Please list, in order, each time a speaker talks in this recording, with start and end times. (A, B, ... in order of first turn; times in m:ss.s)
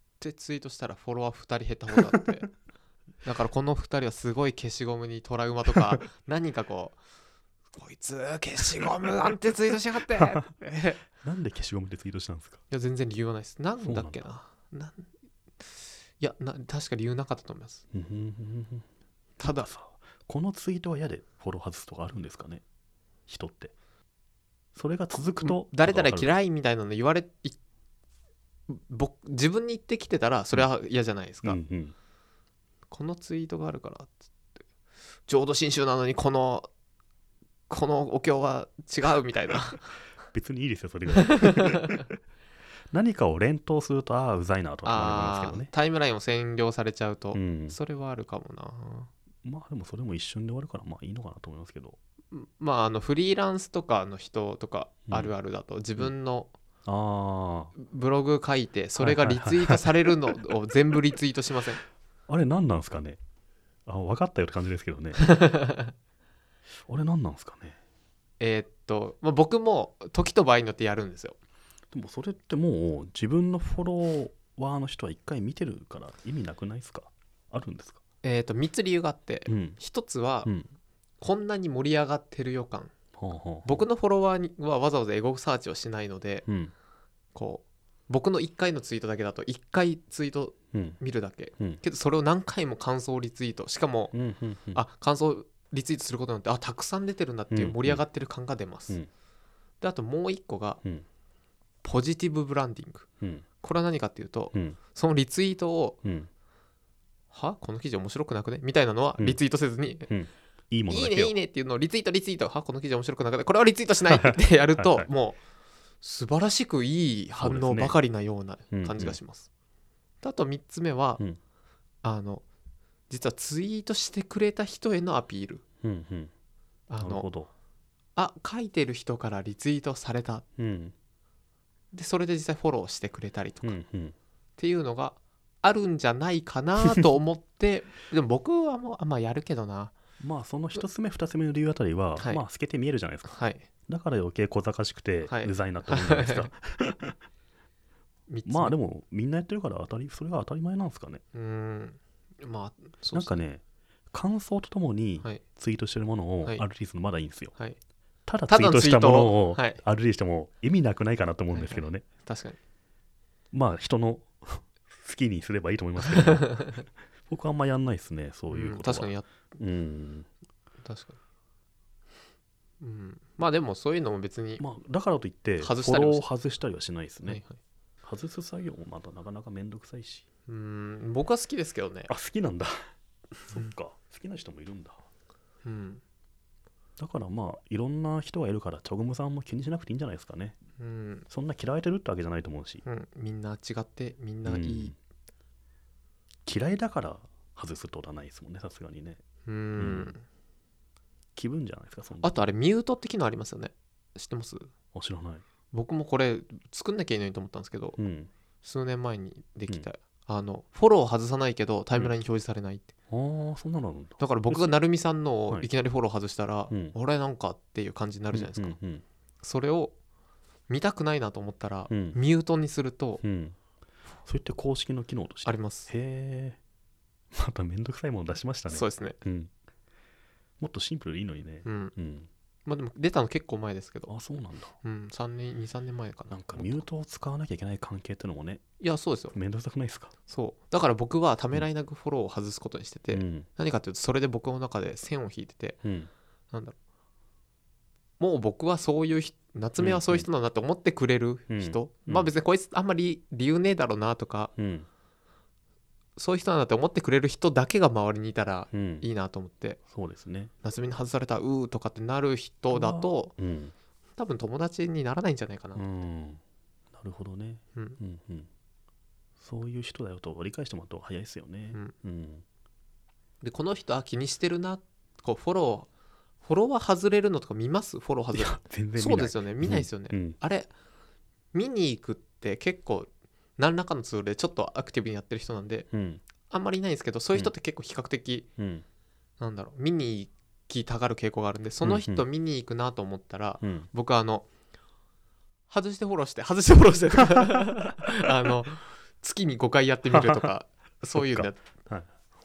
0:00.2-0:02.5 A
0:03.2-0:07.0 A
0:07.8-0:11.0 A
0:10.2-0:10.5 B
0:11.1-0:12.6 B
0:12.7-0:15.1 A
0:13.8-0:14.2 B
0:15.6-0:17.8 A
0:17.9-0:18.9 B
0:19.4-0:19.7 A
0:19.4-0:22.6 B
0:23.3-0:23.8 B
0:24.8-0:26.3 B
0:25.4-0:27.6 A
0:28.7-0:31.6 A
0:31.4-0:32.0 B
0:32.9-0:34.2 A
0:35.3-0:36.7 A
0:37.7-0:39.9 A
0:40.3-0:42.1 B
0:41.3-0:41.9 A
0:42.9-0:45.7 B
0:44.8-0:49.1 A
0:47.3-0:47.8 B
0:49.4-0:52.0 B
0:52.3-0:56.5 A
0:55.1-0:55.3 B
0:56.8-0:57.7 B
0:57.8-1:01.8 A
0:59.0-1:00.1 B
1:02.3-1:03.2 B
1:03.9-1:05.4 B
1:05.2-1:05.9 A
1:06.9-1:07.8 B
1:08.4-1:11.4 A
1:11.9-1:18.0 B
1:18.2-1:20.5 A
1:19.5-1:19.8 B
1:21.2-1:22.9 A
1:23.2-1:23.9 B
1:23.6-1:26.5 A
1:26.5-1:26.7 B
1:27.4-1:34.1 A
1:30.7-1:31.0 B
1:34.1-1:34.8 B
1:34.7-1:39.0 A
1:37.5-1:38.0 B
1:39.8-1:40.8 A
1:41.8-1:43.1 A
1:43.2-1:43.4 B
1:43.6-1:46.0 A
1:44.5-1:44.8 B
1:46.0-1:46.3 B
1:47.3-1:50.1 A
1:50.1-1:51.4 B
1:50.9-1:55.4 A
1:54.1-1:55.1 B
1:56.0-1:59.5 A
1:57.4-1:58.0 B
1:58.7-1:59.2 B
2:00.2-2:01.2 A
2:02.0-2:02.4 A
2:03.1-2:05.6 A
2:05.8-2:06.3 B
2:06.9-2:07.3 A
2:07.0-2:07.5 B
2:08.2-2:10.4 A
2:10.6-2:11.0 B
2:11.9-2:13.8 A
2:13.6-2:14.2 B
2:14.6-2:19.9 A
2:20.2-2:23.3 B
2:23.3-2:23.7 A
2:23.9-2:27.2 B
2:25.3-2:26.5 A
2:28.3-2:28.8 A
2:28.5-2:31.2 B
2:31.3-2:33.3 A
2:33.1-2:37.5 B
2:38.3-2:42.0 B
2:38.5-2:39.8 A
2:41.5-2:42.6 A
2:43.5-2:50.3 B
2:46.2-2:46.7 A
2:48.5-2:49.3 A
2:50.8-2:51.2 A
2:52.8-2:54.6 A
2:54.6-2:57.4 B
2:55.6-2:56.2 A
2:57.2-2:57.6 A
2:58.0-3:00.2 B
3:00.5-3:02.1 A
3:02.1-3:02.7 B
3:03.5-3:05.0 B
3:05.6-3:06.0 A
3:07.0-3:10.6 B
3:10.8-3:11.3 A
3:11.3-3:12.8 B
3:12.8-3:14.9 A
3:14.4-3:15.0 B
3:16.5-3:19.2 B
3:19.5-3:20.2 A
3:19.8-3:20.1 B
3:21.4-3:22.4 B
3:22.2-3:24.7 A
3:24.9-3:25.4 B
3:25.7-3:28.0 A
3:28.0-3:28.3 B
3:28.6-3:32.9 A
3:33.1-3:34.7 B
3:34.2-3:38.8 A
3:36.7-3:37.0 B
3:38.3-3:39.0 B
3:39.4-3:39.9 A
3:40.7-3:43.2 A
3:41.9-3:42.2 B
3:43.2-3:43.6 B
3:44.2-3:46.6 B
3:45.4-3:45.9 A
3:47.3-3:49.5 B
3:48.7-3:49.2 A
3:50.6-3:52.3 B
3:51.6-3:51.9 A
3:52.7-3:54.1 A
3:54.1-3:54.8 B
3:54.8-3:56.8 A
3:56.3-3:58.6 B
3:58.8-3:59.4 A
3:59.3-4:00.1 B
4:00.3-4:05.8 A
4:03.1-4:03.5 B
4:05.8-4:06.1 B
4:08.2-4:14.5 A
4:09.8-4:10.3 B
4:11.5-4:12.3 B
4:14.6-4:14.9 B
4:16.2-4:19.8 A
4:18.7-4:19.1 B
4:19.9-4:20.5 B
4:20.6-4:23.3 A
4:22.7-4:23.7 B
4:24.2-4:25.8 A
4:25.8-4:26.4 B
4:26.9-4:28.5 B
4:29.4-4:32.4 B
4:33.4-4:35.9 A
4:36.4-4:40.7 A
4:38.3-4:40.4 B
4:41.5-4:45.9 A
4:45.9-4:46.2 B
4:46.5-4:48.5 A
4:48.6-4:48.8 B
4:49.4-4:54.5 A
4:51.8-4:52.2 B
4:53.6-4:53.9 B
4:55.7-5:01.6 A
5:00.1-5:00.5 B
5:01.1-5:02.1 B